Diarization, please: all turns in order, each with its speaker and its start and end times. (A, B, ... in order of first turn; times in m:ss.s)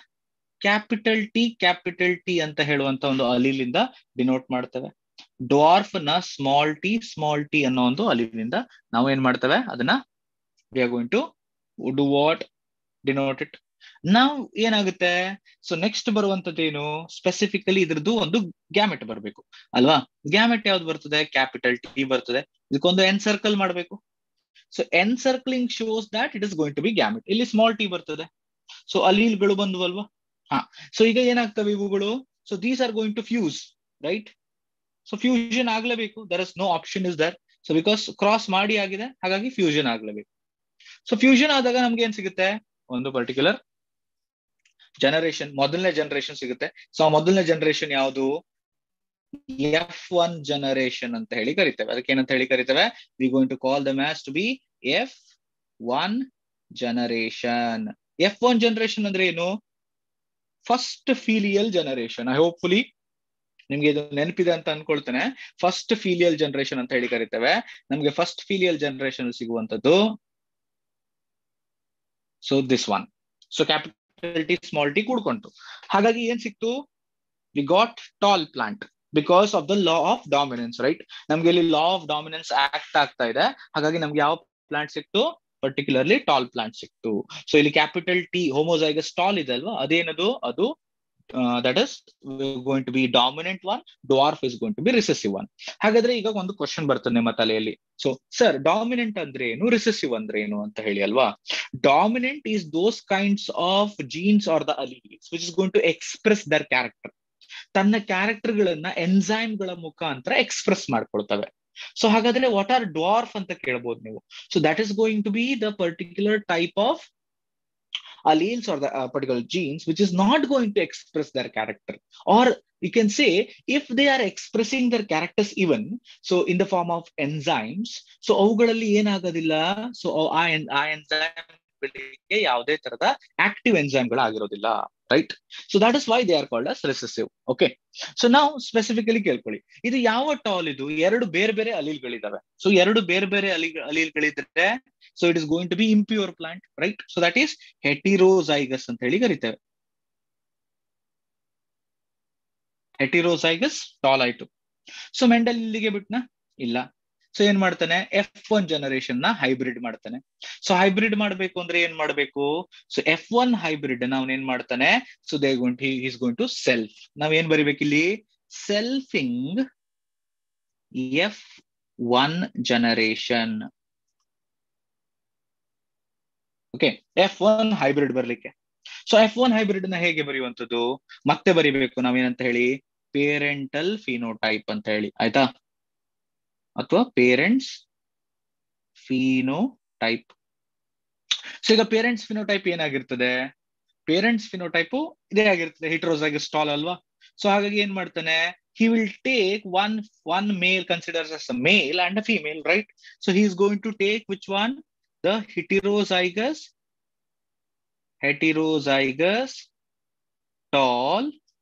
0:00.6-0:04.9 A
0:05.5-0:10.0 A
0:10.8-0:11.2 A
0:11.8-0:12.4 A
0:13.0-0:24.0 A
0:24.7-0:28.3 A
0:28.9-0:34.3 A
0:35.1-0:40.3 A
0:41.1-0:43.6 A
0:45.0-0:48.3 A
0:49.5-0:55.2 A
0:55.9-0:56.2 A
0:56.8-0:59.5 A
1:00.7-1:02.8 A
1:03.7-1:10.0 A
1:12.4-1:16.8 A
1:17.6-1:30.7 A
1:31.3-1:41.3 A
1:41.8-1:47.1 A
1:47.8-1:57.0 A
1:58.3-2:29.6 A
2:33.0-2:34.5 A
2:35.2-2:49.6 A
2:51.0-2:51.5 A
2:52.1-2:53.6 A
2:56.7-2:58.5 A
2:59.1-3:05.5 A
3:06.8-3:07.8 A
3:09.0-3:10.3 A
3:11.6-3:13.4 A
3:14.1-3:26.7 A
3:28.2-3:29.7 A
3:30.7-3:31.3 A